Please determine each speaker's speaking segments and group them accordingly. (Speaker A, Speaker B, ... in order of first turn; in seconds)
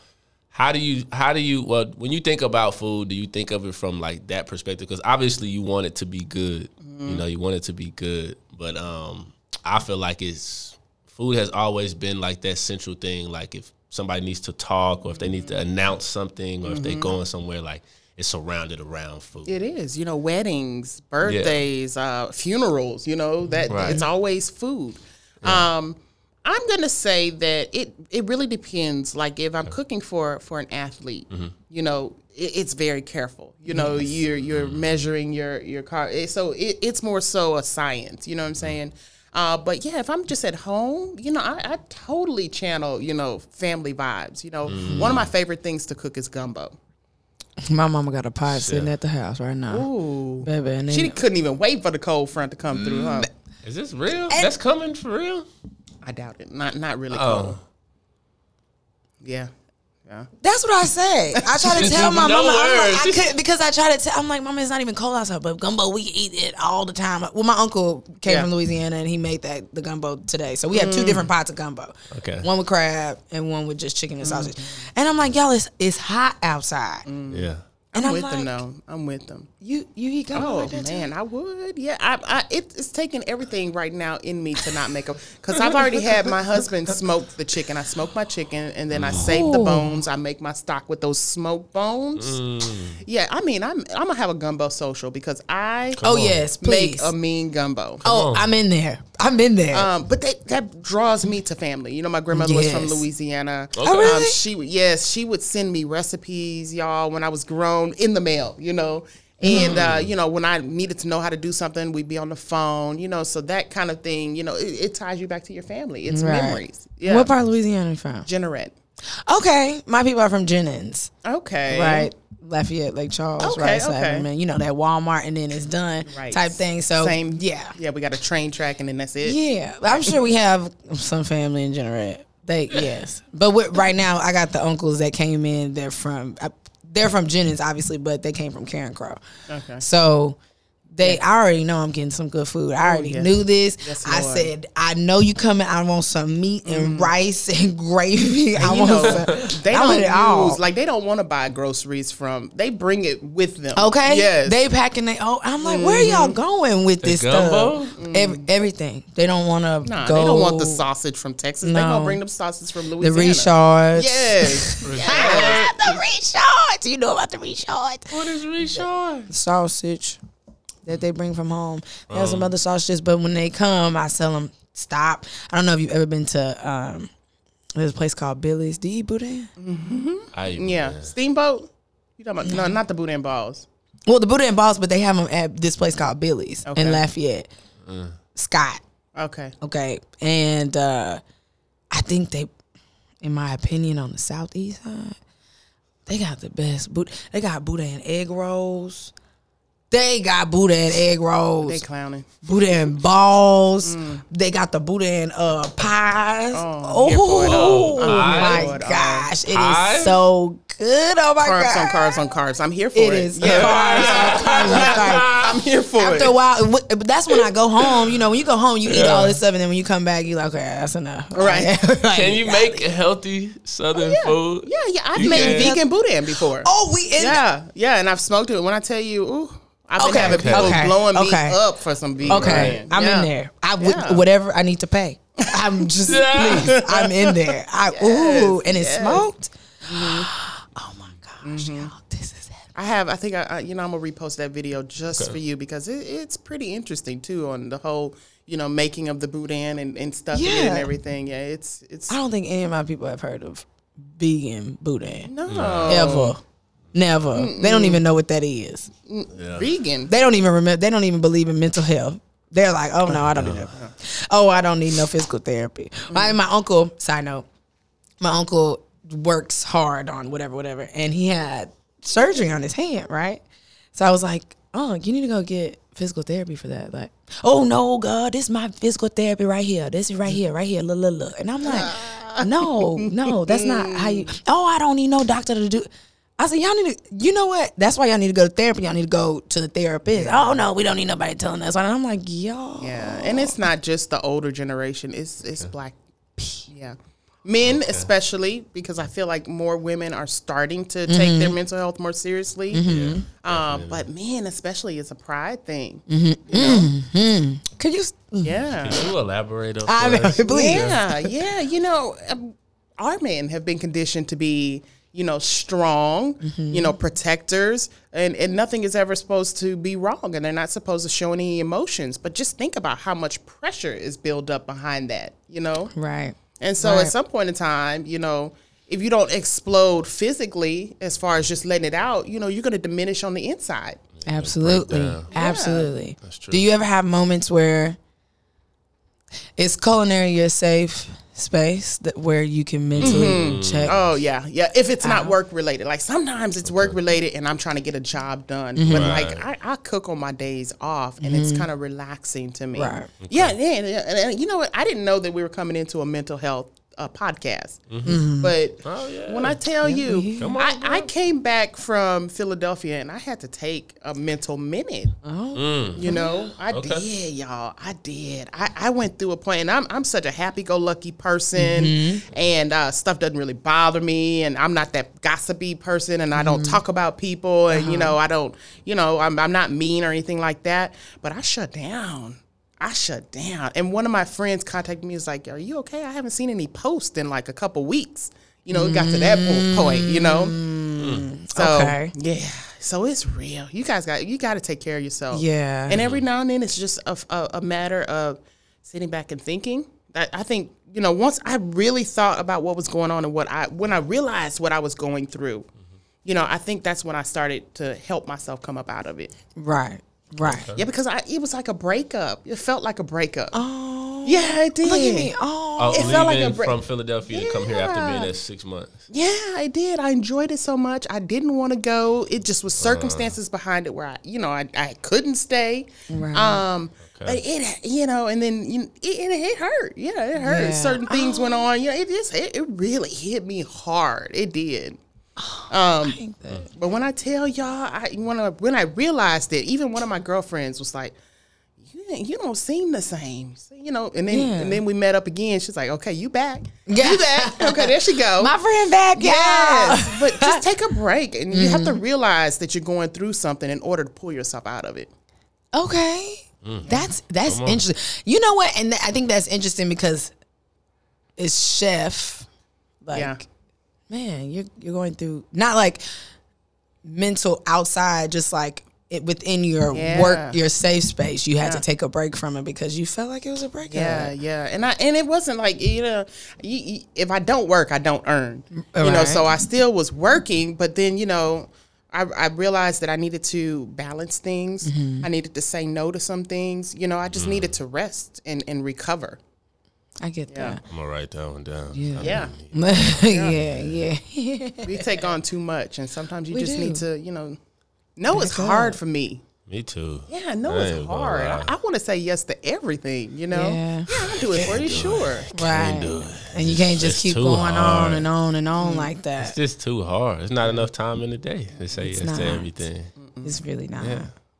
Speaker A: 0.5-19.5, 21.2-21.6, 23.7-24.0, 25.4-25.7, 33.9-34.9, 44.6-45.3, 48.5-48.9, 53.6-55.5, 57.1-57.6, 61.7-63.3, 72.1-72.5, 77.3-77.6, 88.9-89.4, 92.2-93.0, 96.0-96.4, 98.0-98.5, 103.8-104.3, 109.5-110.1, 149.0-149.5, 157.0-157.9, 164.8-166.0, 168.1-169.3, 172.1-172.5, 180.3-181.1, 187.8-188.2, 207.4-208.7, 209.5-210.2, 213.4-215.6, 218.8-219.4, 222.1-225.8, 230.2-230.9, 232.2-232.8, 236.1-236.7, 255.4-256.2, 259.3-259.7, 263.3-263.7, 297.6-298.1, 302.9-304.1, 308.8-311.0, 334.2-335.3, 336.2-336.6, 342.9-344.1, 346.6-347.0, 348.9-349.4, 353.2-353.5, 357.9-358.2, 358.8-359.6, 360.4-361.1, 365.5-366.1, 366.7-367.1, 391.0-391.3, 395.9-396.2, 410.4-410.8, 415.8-418.9, 422.8-423.3, 427.0-427.4, 456.6-456.9, 457.4-457.8, 487.3-487.7, 490.9-494.1, 499.7-501.7, 504.1-508.3, 509.4-513.1, 514.0-514.3
Speaker B: 6.8-7.2, 15.2-15.6, 16.6-17.1, 19.5-46.8, 49.7-53.3, 56.0-57.6, 59.2-59.5, 61.4-62.0, 68.2-68.5, 70.7-71.3, 74.2-74.8, 77.0-79.5, 80.3-92.4, 93.0-96.0, 96.6-98.0, 99.7-117.3, 118.2-118.7, 121.2-122.1, 123.4-124.3, 126.1-130.2, 139.5-139.8, 142.8-144.5, 146.7-147.1, 148.6-154.6, 155.6-156.4, 158.0-158.5, 159.8-165.6, 179.6-183.7, 186.7-187.0, 189.2-189.5, 201.6-202.3, 203.8-204.2, 206.5-209.3, 211.4-216.4, 221.3-221.7, 223.9-234.2, 235.4-239.3, 239.8-240.3, 241.4-241.9, 242.7-252.2, 255.2-256.4, 257.3-258.0, 259.1-260.1, 263.4-263.9, 266.1-266.4, 281.6-284.3, 290.1-290.6, 292.8-306.9, 308.4-309.1, 310.5-325.9, 326.6-334.0, 335.3-335.9, 343.0-365.1, 365.9-390.6, 391.5-405.7, 406.2-409.3, 410.8-413.6, 414.2-415.3, 415.9-416.8, 417.3-418.3, 419.1-435.0, 435.7-436.2, 436.7-441.1, 441.8-448.5, 449.1-455.1, 456.8-457.1, 463.1-463.4, 469.9-470.6, 473.9-489.4, 490.5-490.8, 492.2-493.6, 494.8-497.6, 498.2-499.4, 500.3-505.5, 508.8-509.1, 510.6-510.9, 513.2-513.6
Speaker C: 33.7-34.0, 44.8-45.1, 47.6-49.9, 50.4-51.2, 52.8-53.3, 60.4-77.0, 77.9-78.6, 79.6-81.1, 89.2-90.0, 96.0-97.1, 98.0-99.9, 102.3-103.0, 103.8-104.4, 109.4-109.8, 116.1-118.3, 119.3-121.1, 121.7-127.7, 129.2-139.2, 139.8-140.4, 140.9-150.6, 153.8-160.8, 161.6-162.2, 163.0-168.2, 169.3-170.2, 170.8-177.1, 177.8-179.5, 182.4-182.8, 184.1-187.5, 188.3-188.8, 189.6-191.2, 191.9-192.5, 193.2-195.2, 196.1-199.1, 199.9-201.8, 202.4-212.2, 212.9-215.3, 216.0-222.8, 225.2-225.8, 226.6-227.4, 230.0-231.6, 232.3-242.7, 250.3-250.9, 252.1-255.3, 255.9-256.4, 256.9-258.9, 260.1-267.4, 268.2-273.4, 273.9-293.5, 301.1-301.6, 302.7-303.2, 306.1-308.5, 309.9-311.3, 316.4-317.0, 325.9-327.1, 334.2-338.0, 339.6-343.9, 345.0-345.3, 348.8-349.2, 351.2-351.7, 352.7-353.1, 358.0-358.5, 359.8-360.6, 365.2-366.5, 371.6-372.2, 376.3-376.8, 377.7-378.1, 388.7-392.1, 395.3-396.0, 409.6-410.7, 413.5-416.5, 426.1-426.6, 430.4-431.7, 435.4-436.7, 444.3-444.8, 446.9-450.6, 451.5-452.0, 455.7-460.3, 461.4-462.5, 463.0-463.4, 464.1-466.0, 467.0-474.3, 478.7-479.5, 484.8-485.2, 490.2-490.8, 491.9-495.1, 496.5-497.0, 498.3-499.0, 503.5-504.1, 505.5-509.6, 512.0-512.8, 513.4-514.3